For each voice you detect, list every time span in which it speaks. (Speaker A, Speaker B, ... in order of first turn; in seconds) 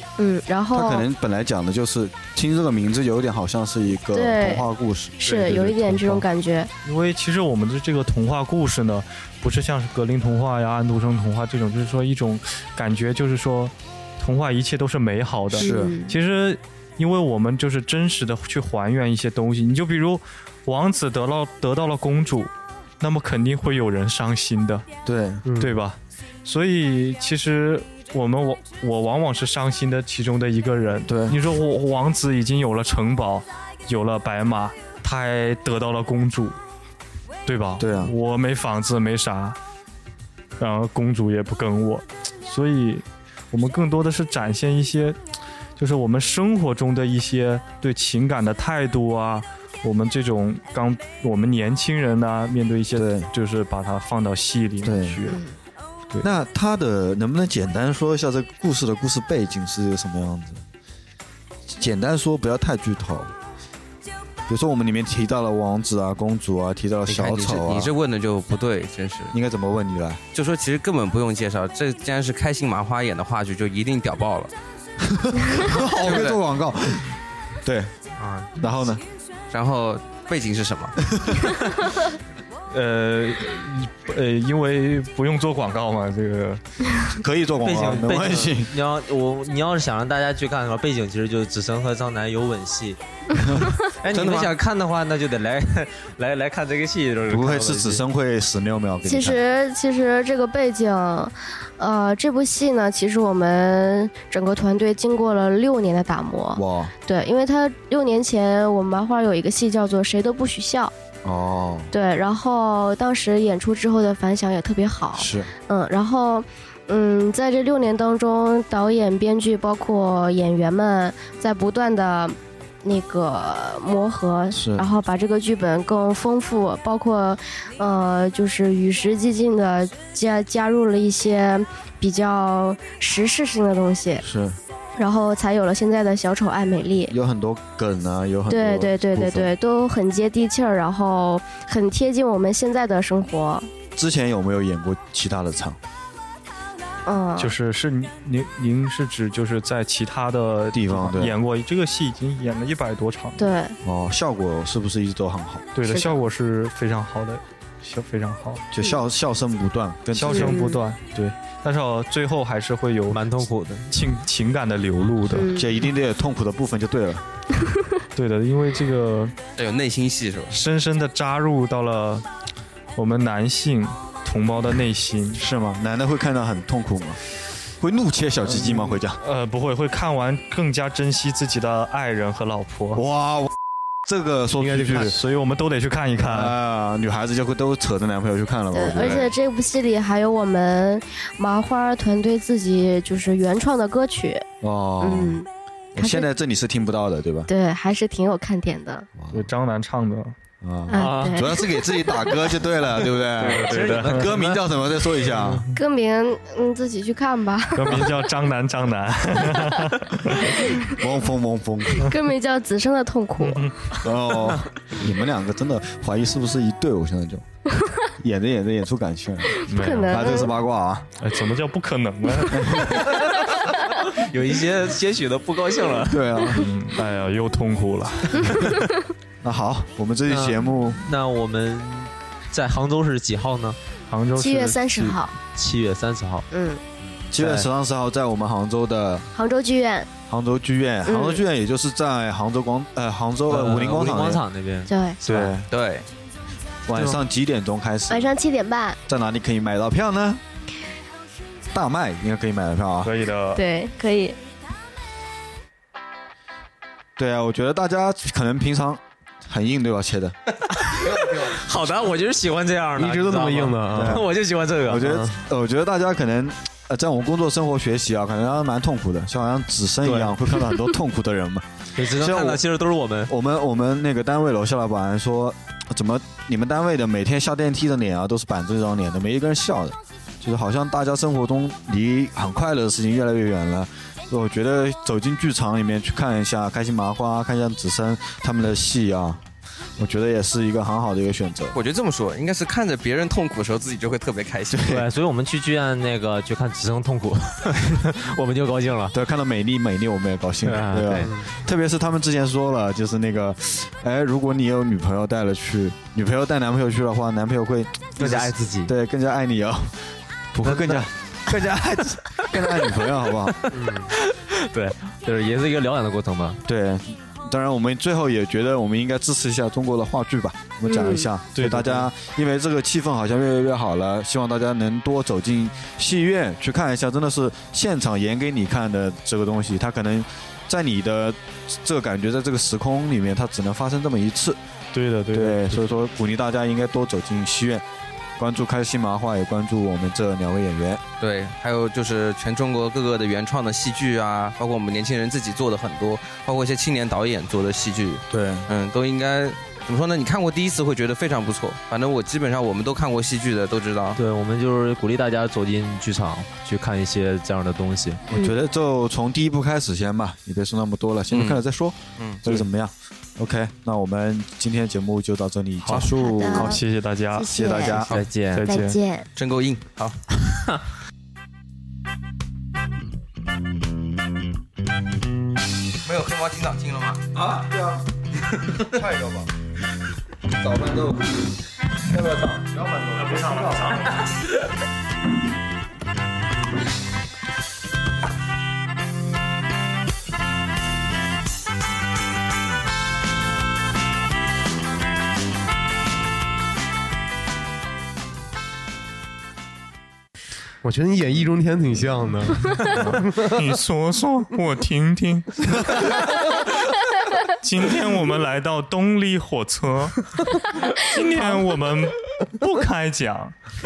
Speaker A: 0.2-1.1, 4.1-4.7, 5.2-6.7, 15.5-16.1, 55.3-55.5, 99.0-110.9, 111.9-134.2, 135.0-137.2, 138.5-143.7, 147.1-147.5, 153.4-153.8, 155.8-156.1, 160.2-160.8, 165.3-165.7, 188.7-194.4, 195.0-196.3, 197.5-199.1, 200.9-202.4, 205.7-208.1, 210.5-210.9, 212.0-213.7, 219.7-220.5, 234.3-235.3, 236.5-236.8, 239.3-240.1, 241.1-241.4, 244.9-245.2, 248.1-249.0, 253.5-254.4, 320.9-321.3, 366.1-366.8, 367.4-368.1, 368.6-369.3
Speaker B: 0.7-5.2, 15.6-16.0, 25.0-25.4, 31.1-31.4, 37.8-38.1, 53.0-53.3, 54.8-55.2, 56.2-60.6, 61.7-63.3, 64.5-67.9, 69.3-70.2, 75.0-77.9, 78.6-79.0, 87.1-88.7, 93.4-94.5, 97.3-99.4, 106.5-106.9, 111.2-111.9, 115.1-115.5, 124.5-124.8, 134.2-134.6, 137.1-139.5, 143.9-145.8, 150.7-151.3, 153.8-155.7, 158.7-160.6, 165.5-167.2, 175.3-177.2, 177.8-179.2, 182.9-185.2, 186.2-189.3, 194.6-197.5, 199.2-199.5, 200.6-205.7, 210.7-212.1, 214.0-217.4, 218.2-221.1, 222.5-223.1, 226.1-226.7, 229.4-231.0, 237.3-239.3, 240.3-244.4, 245.2-245.7, 246.8-248.3, 249.1-250.4, 251.7-253.1, 257.2-260.3, 263.9-264.3, 264.9-272.6, 273.2-289.4, 290.0-291.8, 294.7-295.0, 299.1-310.0, 310.5-313.6, 316.6-334.6, 335.3-337.8, 338.4-341.0, 348.3-348.7, 358.3-366.8, 367.5-368.1, 377.3-378.1, 378.8-379.5, 380.6-381.3, 382.1-384.0
Speaker C: 5.2-6.2, 6.8-24.9, 25.6-36.5, 37.5-39.6, 40.6-45.2, 45.8-55.4, 82.7-86.6, 147.4-153.5, 155.7-158.6, 160.1-163.2, 163.9-165.5, 168.1-169.3, 170.5-172.2, 172.9-175.4, 179.2-183.0, 185.0-186.5, 199.3-200.4, 203.4-204.3, 207.7-210.6, 213.4-214.0, 219.7-220.5, 221.2-222.9, 226.5-228.7, 234.1-235.2, 253.0-253.6, 321.6-321.8, 334.9-335.8, 365.8-367.5, 368.5-369.0, 383.2-384.1, 402.9-406.0, 407.5-410.3, 410.8-413.6
Speaker D: 25.4-25.8, 184.6-185.1, 246.9-247.2, 262.9-264.3, 265.0-265.3, 301.2-301.4, 400.8-403.5
Speaker E: 67.1-69.3, 70.3-74.5, 75.7-76.4, 79.5-81.0, 169.6-170.5, 188.9-189.3, 245.7-246.1, 291.7-294.9, 341.2-354.2, 361.3-361.6, 368.0-368.2, 369.4-370.2, 376.0-377.3
Speaker F: 78.2-78.5, 87.6-93.0, 94.0-98.0, 163.1-163.9, 200.9-201.4, 203.4-204.7, 224.2-226.3, 230.3-233.8, 235.5-236.4, 237.1-237.7, 243.5-245.6, 261.4-265.2, 270.1-270.4, 271.9-273.3, 294.8-299.1, 300.6-301.3, 308.2-308.9, 310.6-311.7, 313.7-316.6, 321.6-322.1, 354.2-358.2, 368.1-368.7